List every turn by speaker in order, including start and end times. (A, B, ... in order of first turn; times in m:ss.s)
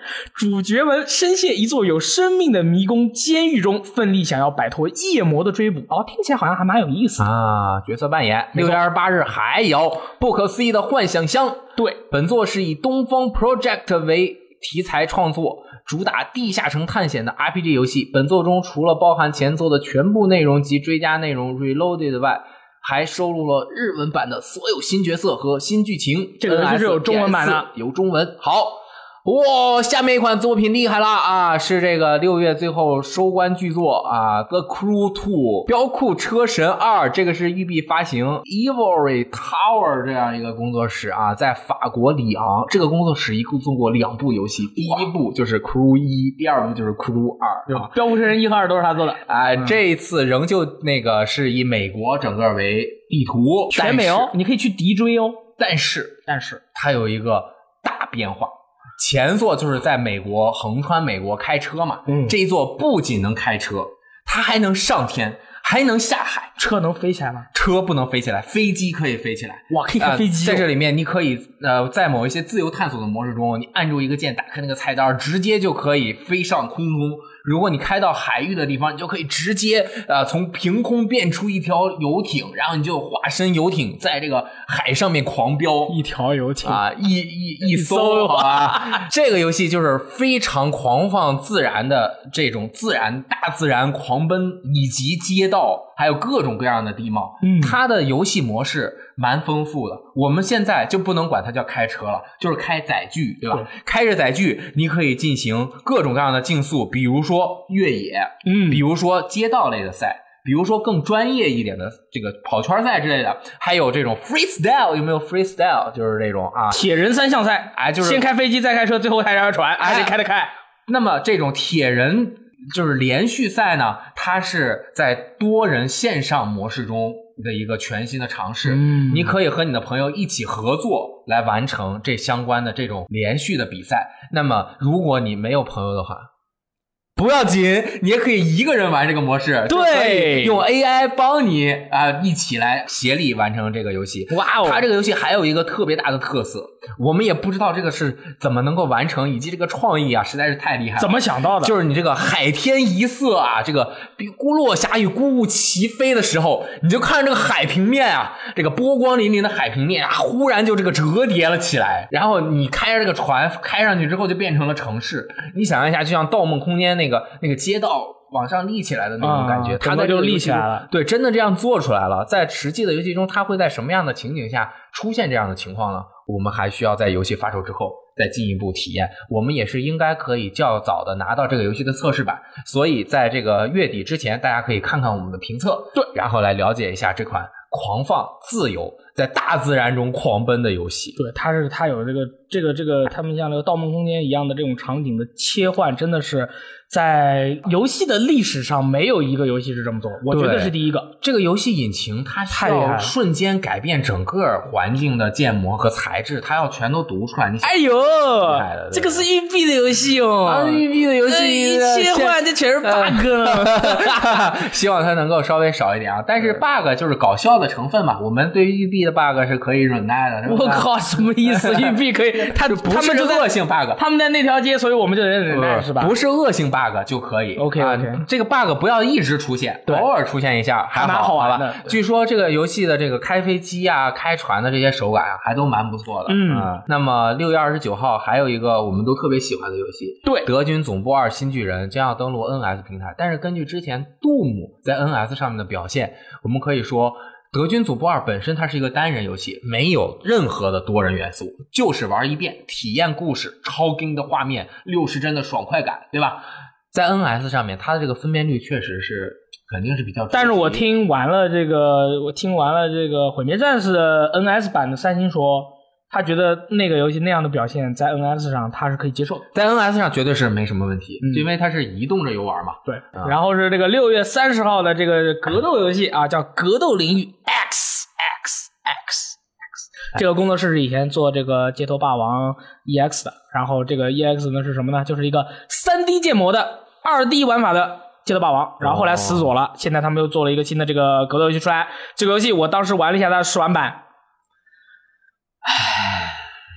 0:00.4-0:07.3 A
0:07.2-0:47.9 B
0:08.6-0:08.8 A
0:26.4-0:27.7 A
0:44.8-0:45.1 A
0:47.7-0:49.2 A
0:49.3-0:54.3 B
0:53.7-0:55.5 A
0:55.6-1:06.6 B
0:56.3-0:56.6 A
1:02.1-1:02.4 A
1:06.6-1:07.5 A
1:07.5-1:26.0 B
1:09.7-1:10.7 A
1:25.9-1:26.8 A
1:26.6-1:56.9 B
1:27.6-1:29.0 A
1:37.4-1:37.8 A
1:48.4-1:48.8 A
1:56.7-2:00.5 A
1:57.8-1:58.3 B
1:59.8-2:00.2 B
2:00.9-2:16.3 B
2:08.7-2:09.4 A
2:17.2-3:11.2 B
2:19.7-2:20.6 A
2:24.3-2:24.8 A
2:31.0-2:31.8 A
2:49.2-2:50.9 A
3:11.2-3:21.1 A
3:20.3-3:29.3 B
3:22.5-3:23.2 A
3:27.6-3:34.6 A
3:30.5-3:44.0 B
3:40.5-3:46.1 A
3:45.5-4:20.9 B
3:47.6-3:48.2 A
3:51.0-3:52.0 A
3:56.3-3:56.7 A
4:00.2-4:00.5 A
4:20.3-4:29.5 A
4:29.5-4:33.4 B
4:31.2-4:31.5 A
4:32.9-4:39.5 A
4:40.0-4:54.0 A
4:48.8-4:49.5 B
4:55.6-4:56.5 B